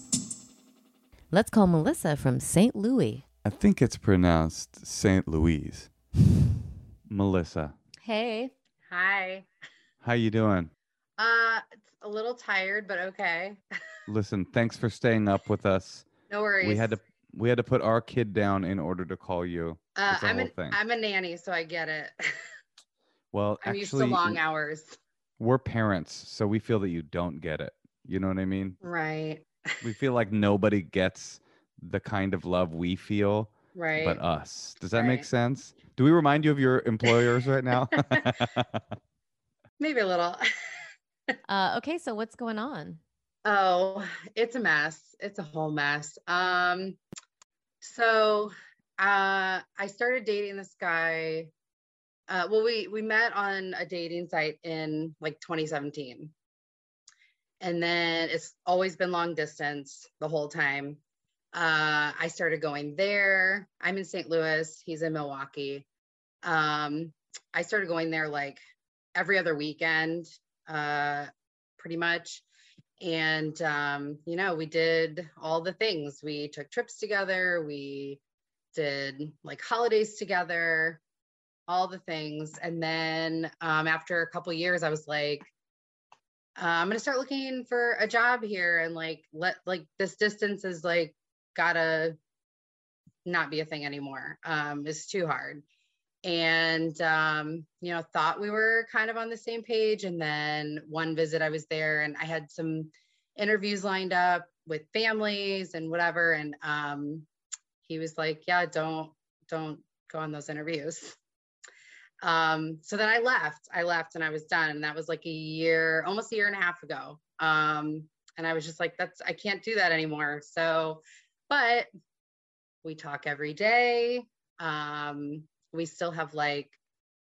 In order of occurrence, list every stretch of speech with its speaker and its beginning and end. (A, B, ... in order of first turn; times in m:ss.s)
0:01.3-0:03.2 A
0:03.4-0:05.9 B
0:07.1-0:07.7 B
0:08.0-0:08.5 A
0:08.9-0:09.5 C
0:10.0-0:10.7 B
0:11.2-0:13.6 C
0:14.1-0:16.1 B
0:16.3-0:16.9 C
0:16.6-0:20.8 B
0:20.0-0:22.4 C
0:23.3-0:24.4 B
0:23.6-0:25.0 C
0:25.4-0:28.8 B
0:28.8-0:29.5 C
0:29.8-0:38.9 B
0:33.7-0:34.2 C
0:35.0-0:35.3 C
0:39.8-0:40.4 C
0:41.5-0:43.0 A
0:43.4-0:47.0 C
0:47.8-0:51.5 C
0:52.3-0:56.3 C
0:57.6-1:01.0 C
1:01.5-1:05.9 C
1:06.4-1:08.6 C
1:09.2-1:12.4 C
1:13.0-1:18.2 C
1:18.7-1:21.0 C
1:21.7-1:25.5 C
1:26.6-1:32.2 C
1:33.3-1:35.6 C
1:36.2-1:47.3 C
1:47.9-1:51.2 C
1:52.2-2:01.9 C
2:02.8-2:06.8 C